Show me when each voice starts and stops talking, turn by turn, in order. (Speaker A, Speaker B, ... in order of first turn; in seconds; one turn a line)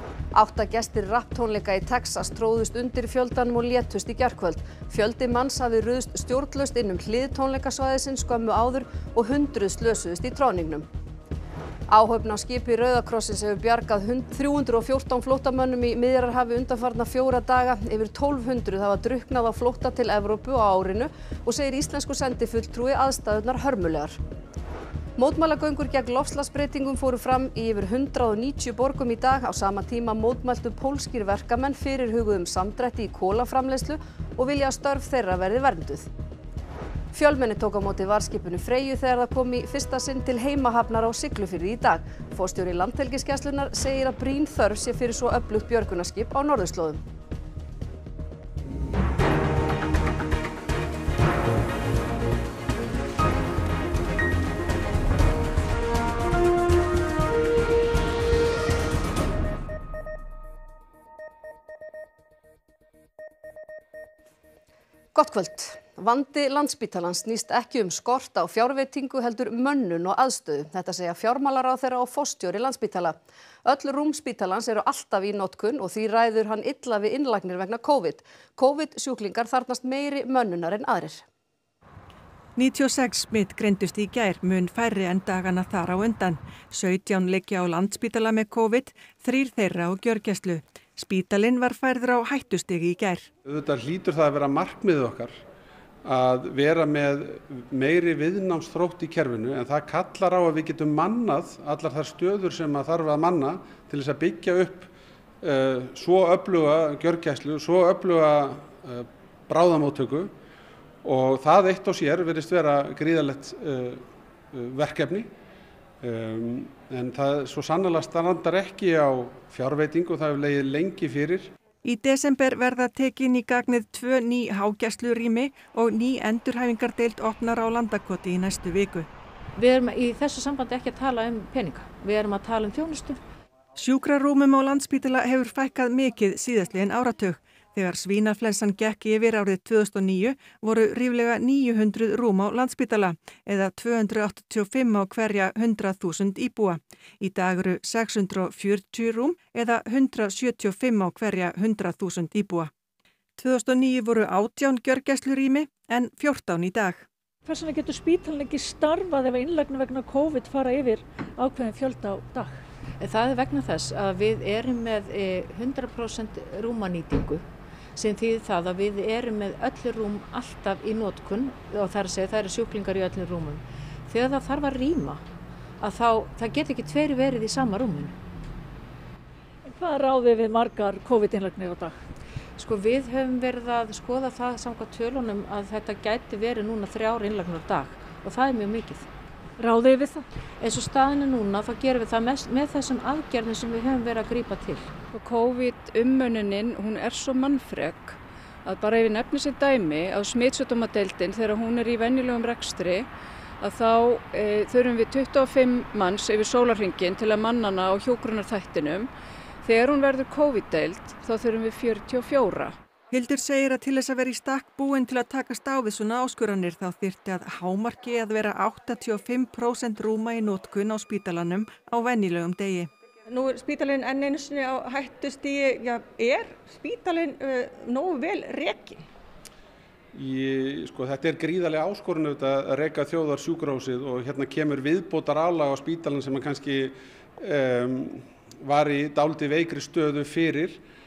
Speaker A: 0.3-10.9
Speaker A: 11.9-24.2
Speaker A: 25.2-36.1
Speaker A: 37.1-47.0
Speaker A: 65.2-81.2
Speaker B: 82.6-93.3
Speaker C: 93.5-95.4
Speaker C: 96.0-104.9
Speaker C: 105.4-110.3
Speaker C: 111.0-115.3
Speaker C: 116.0-121.5
Speaker B: 121.8-129.1
Speaker D: 129.6-133.2
Speaker B: 133.8-152.7
Speaker B: 153.4-157.1
Speaker E: 157.4-162.6
Speaker D: 163.0-167.4
Speaker D: 167.9-175.2
Speaker D: 175.8-178.1
Speaker E: 179.7-181.9
Speaker D: 182.6-189.1
Speaker E: 189.6-190.2
Speaker D: 190.6-194.9
Speaker F: 195.1-203.1
Speaker F: 203.6-209.1
Speaker F: 209.6-212.8
Speaker B: 213.1-222.9
Speaker C: 230.1-240.8